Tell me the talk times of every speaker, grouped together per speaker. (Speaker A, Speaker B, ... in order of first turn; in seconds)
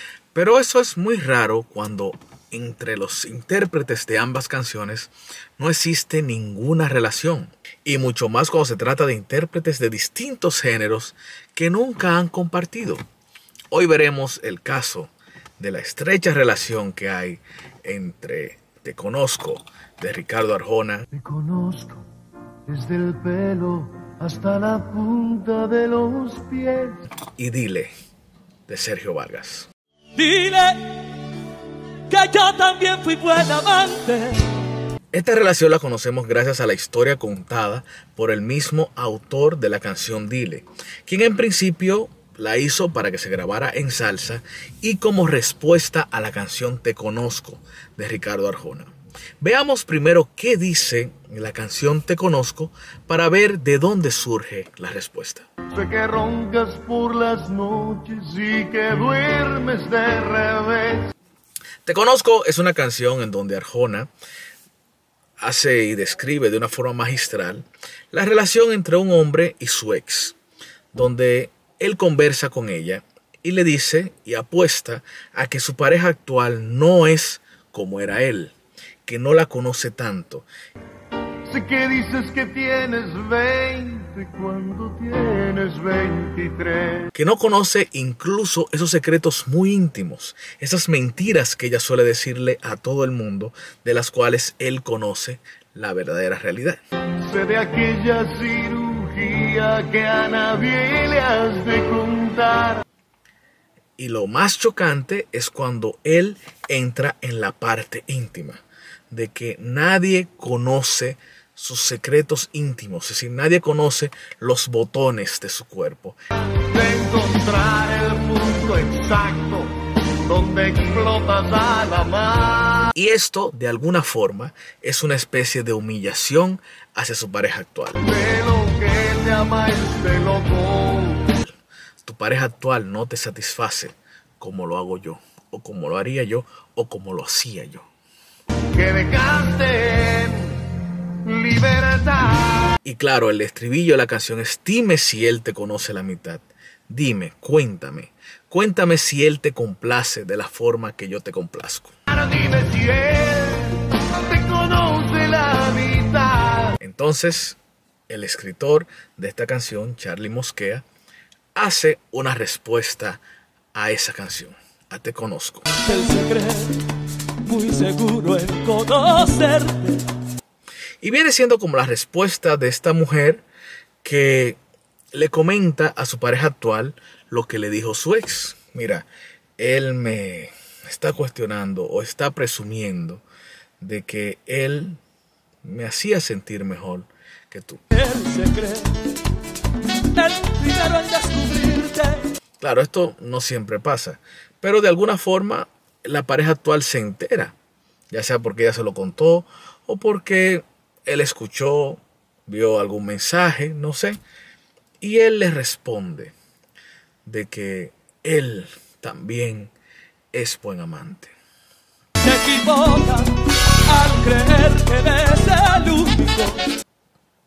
Speaker A: 0.3-13.0, 13.7-21.1, 27.4-27.9, 28.7-29.7, 35.1-55.5, 61.8-64.1, 65.4-70.4, 70.9-80.5, 87.1-96.8, 104.0-116.2, 122.9-128.0, 131.4-137.9, 142.8-151.9, 156.8-157.6, 158.1-160.8, 161.5-163.2, 163.7-165.7, 171.0-173.4, 174.0-174.6, 175.1-179.1, 179.6-183.2, 183.8-185.0, 185.6-187.8, 192.6-197.5, 198.1-204.2, 205.0-206.3, 207.2-209.7, 210.3-211.3
Speaker B: 21.1-22.1, 22.7-27.0, 55.7-61.1, 81.5-87.1, 97.2-102.8, 116.6-122.9, 128.0-131.3, 138.7-140.7, 141.2-142.8, 152.1-156.8
Speaker C: 30.1-30.9, 32.1-34.5, 165.8-166.8, 167.4-170.1, 187.9-189.0, 190.1-192.3, 212.2-213.3, 213.8-216.6